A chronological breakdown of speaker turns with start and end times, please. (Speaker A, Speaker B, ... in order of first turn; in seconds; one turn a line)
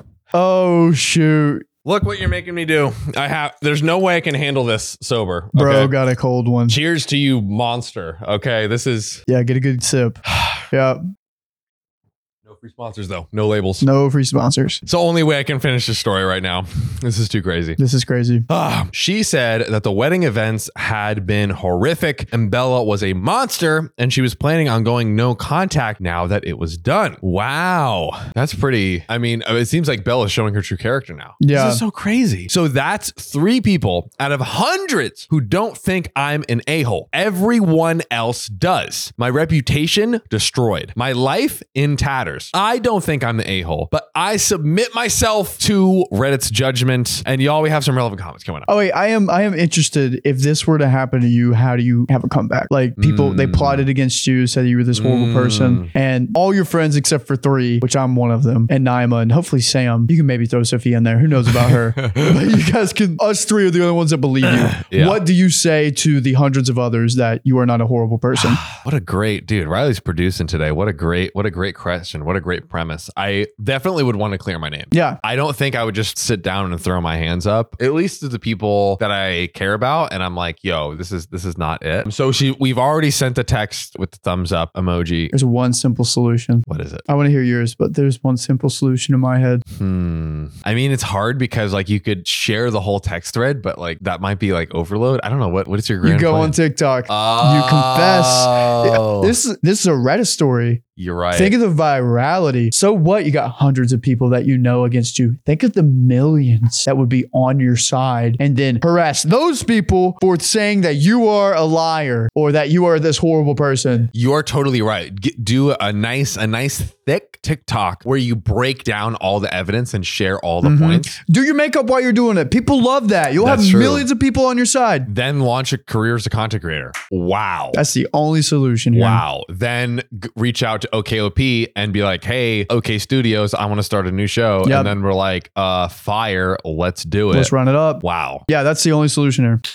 Speaker A: 0.3-1.7
Speaker B: 1.9-6.0
Speaker A: 5.5-6.8
Speaker B: 6.7-9.2
Speaker A: 9.3-11.0
Speaker B: 10.3-10.6
Speaker B: 12.5-13.9
Speaker A: 13.8-14.8
Speaker B: 14.8-17.8
Speaker A: 17.8-18.5
Speaker B: 18.5-48.7
Speaker A: 31.4-31.8
Speaker A: 48.7-68.6
Speaker B: 53.0-53.9
Speaker B: 54.9-55.9
Speaker B: 62.0-62.4
Speaker B: 64.5-65.2
Speaker B: 68.3-85.3
Speaker A: 74.9-75.2
Speaker A: 85.3-89.6
Speaker B: 86.7-87.0
Speaker B: 89.7-96.5
Speaker A: 96.0-100.8
Speaker B: 97.1-99.3
Speaker B: 101.0-101.6
Speaker A: 101.3-114.1
Speaker B: 114.1-121.2
Speaker A: 120.6-125.1
Speaker B: 123.4-124.1
Speaker B: 125.1-127.8
Speaker A: 127.7-129.2
Speaker B: 128.9-138.4
Speaker A: 134.6-134.9
Speaker A: 137.3-139.6